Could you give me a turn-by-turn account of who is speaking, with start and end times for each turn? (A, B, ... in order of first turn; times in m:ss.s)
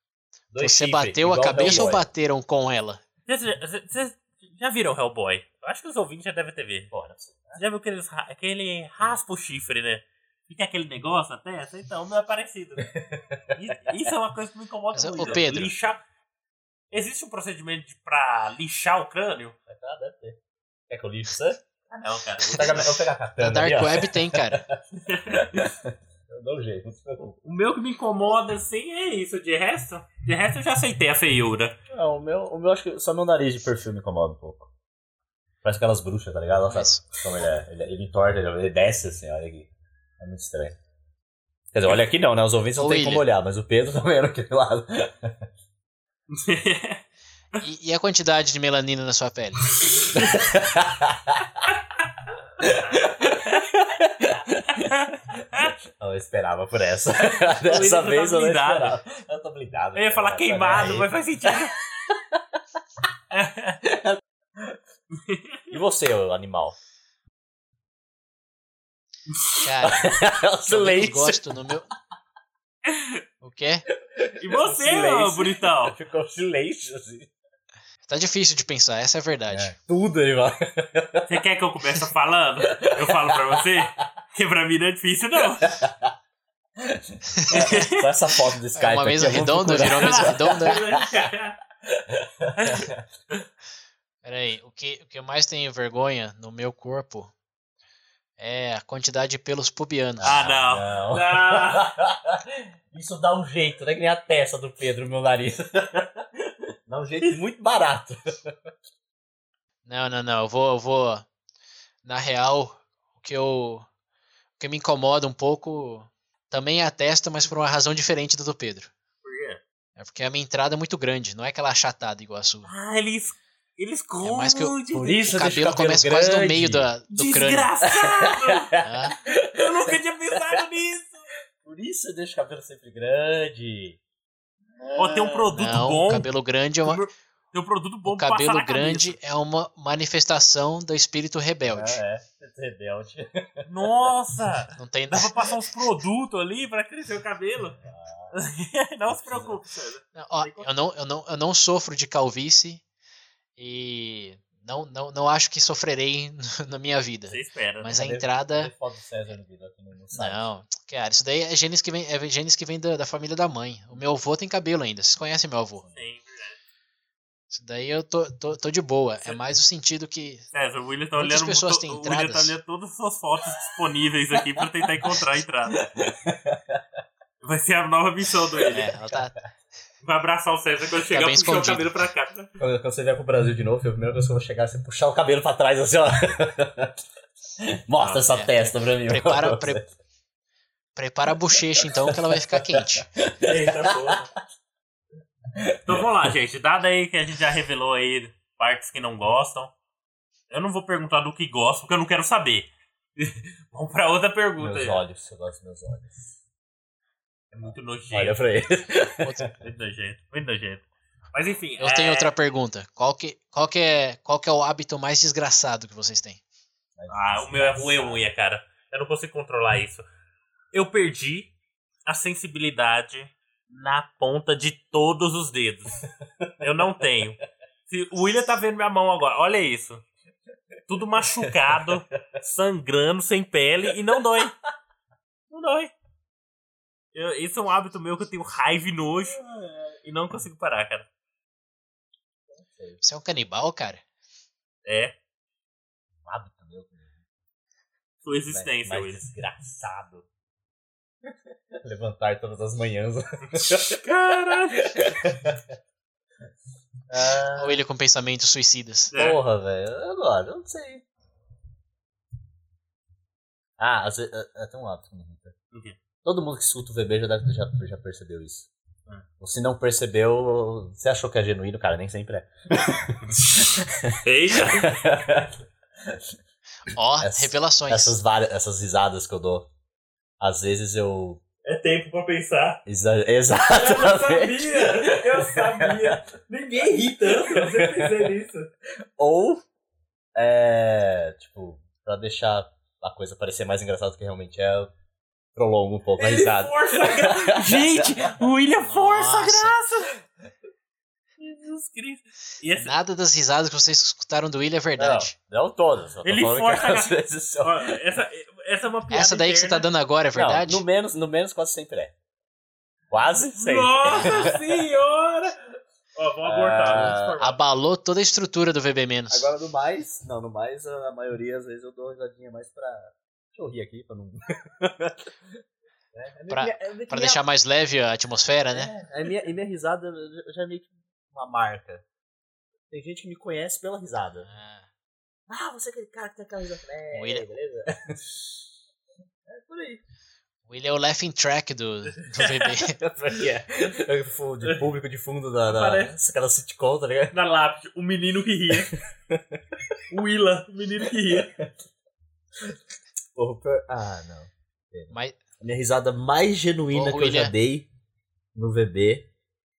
0:00.5-0:02.0 A
0:00.6-0:03.0 B
0:03.3-0:06.9 C
0:06.9-0:07.6 A
0:07.6-0:12.9 C
0:12.8-0:14.1 A
0:13.5-0:16.0 C
0:14.9-0:15.7 B
0:15.2-0:15.7 A
0:16.9-0:19.6 C
0:19.7-0:20.4 A
0:20.9-0:21.6 A
0:21.9-0:23.0 C
0:22.4-0:27.4 A
0:23.4-0:24.6 B
0:25.0-0:25.7 C
0:27.4-0:31.8 C
0:31.9-0:34.7 A
0:35.6-0:40.8 A
0:36.7-0:37.0 B
0:41.7-0:45.4 A
0:42.8-0:43.2 B
0:46.3-0:47.0 C
0:47.6-0:49.7 B
0:50.0-0:51.7 A
0:52.6-1:02.6 A
0:54.9-0:55.7 C
0:57.5-0:59.0 C
1:00.0-1:01.8 C
1:03.3-1:03.8 C
1:03.8-1:04.8 A
1:05.2-1:05.8 C
1:05.7-1:06.8 A
1:09.6-1:11.9 B
1:09.8-1:11.4 A
1:12.9-1:13.2 C
1:13.4-1:13.8 B
1:14.0-1:17.3 A
1:14.4-1:16.0 C
1:18.0-1:19.8 B
1:19.5-1:21.4 A
1:21.3-1:25.7 C
1:22.8-1:23.8 A
1:25.4-1:26.1 A
1:26.8-1:31.3 A
1:27.4-1:27.7 B
1:27.5-1:28.1 C
1:28.7-1:30.8 B
1:29.8-1:31.6 C
1:31.9-1:33.0 A
1:32.6-1:33.4 C
1:34.2-1:37.3 B
1:38.4-1:40.4 B
1:40.2-1:48.5 A
1:40.2-1:41.9 C
1:49.8-1:51.3 B
1:52.0-1:53.9 B
1:54.6-1:58.9 B
1:59.2-1:59.6 C
2:00.0-2:02.7 B
2:02.6-2:05.2 C
2:04.2-2:07.7 B
2:04.9-2:06.9 A
2:07.1-2:08.8 C
2:07.8-2:10.6 A
2:08.8-2:09.2 B
2:09.5-2:11.2 C
2:11.6-2:14.0 A
2:14.8-2:15.9 A
2:14.9-2:16.3 C
2:15.5-2:17.0 B
2:16.8-2:19.2 C
2:18.0-2:22.0 B
2:21.7-2:24.1 A
2:23.7-2:27.8 C
2:24.8-2:25.4 B
2:27.8-2:28.4 A
2:28.3-2:30.7 C
2:29.1-2:29.6 A
2:30.1-2:32.8 B
2:33.6-2:38.7 B
2:37.3-2:38.0 C
2:37.9-2:40.5 A
2:40.1-2:45.8 B
2:45.9-2:46.6 C
2:47.5-2:50.5 B
2:50.5-2:55.8 C
2:51.2-2:52.6 B
2:54.3-2:55.2 A
2:55.7-2:56.8 A
2:57.4-2:58.9 C
2:58.7-2:59.4 B
3:00.0-3:02.5 C
3:01.1-3:01.9 B
3:02.6-3:07.0 A
3:07.6-3:09.9 A
3:08.0-3:08.4 C
3:08.2-3:09.8 B
3:11.0-3:13.1 B
3:11.8-3:14.3 A
3:13.4-3:14.3 C
3:15.5-3:16.3 A
3:15.9-3:19.7 C
3:20.5-3:25.0 C
3:24.6-3:26.3 A
3:27.5-3:28.4 C
3:27.6-3:29.5 A
3:29.2-3:29.5 B
3:29.6-3:32.3 C
3:31.8-3:36.4 B
3:37.0-3:38.3 A
3:37.1-3:40.0 C
3:40.7-3:41.5 C
3:42.1-3:46.0 C
3:46.4-3:46.9 A
3:46.6-3:50.0 C
3:50.9-3:54.5 C
3:51.2-3:52.0 A
3:54.2-3:54.5 A
3:55.5-3:55.9 C
3:57.1-4:01.1 C
3:59.3-3:59.8 A
4:02.5-4:03.0 A
4:03.0-4:04.0 B
4:04.8-4:05.1 C
4:06.2-4:07.2 A
4:08.2-4:09.2 C
4:08.5-4:10.2 A
4:11.7-4:14.0 A
4:13.6-4:14.9 C
4:14.8-4:15.7 A
4:17.1-4:17.8 A
4:17.6-4:19.1 B
4:19.1-4:19.4 C
4:19.1-4:21.0 A
4:23.8-4:25.5 A
4:26.2-4:28.7 A
4:29.4-4:36.2 A
4:34.2-4:34.9 C
4:36.9-4:38.2 B
4:37.2-4:39.7 A
4:40.4-4:41.4 A
4:41.6-4:42.8 C
4:42.8-4:46.2 A
4:43.7-4:48.7 C
4:47.2-4:48.4 A
4:49.2-4:49.6 A
4:50.3-4:54.9 A
4:55.5-4:58.4 A
4:56.2-5:00.2 C
4:58.8-4:59.8 B
5:01.4-5:02.9 C
5:02.8-5:05.3 B
5:05.0-5:08.0 A
5:06.2-5:09.9 C
5:09.1-5:10.8 B
5:10.3-5:12.1 A
5:13.1-5:14.6 A
5:13.5-5:15.5 C
5:14.0-5:14.6 B
5:16.2-5:17.6 C
5:16.4-5:17.4 A
5:16.9-5:19.5 B
5:19.3-5:25.6 A
5:26.1-5:27.4 A
5:26.5-5:28.9 B
5:28.7-5:32.0 A
5:32.9-5:34.5 A
5:34.4-5:34.9 B
5:35.5-5:38.6 A
5:37.1-5:37.4 B
5:39.5-5:40.0 A
5:40.7-5:43.0 B
5:42.1-5:42.8 C
5:43.0-5:47.3 A
5:45.6-5:46.1 C
5:47.3-5:48.9 C
5:48.7-5:50.0 A
5:50.1-5:51.5 C
5:51.2-5:51.7 A
5:53.3-5:57.9 A
5:55.1-5:55.4 B
5:56.9-5:57.5 B
5:58.5-5:59.3 A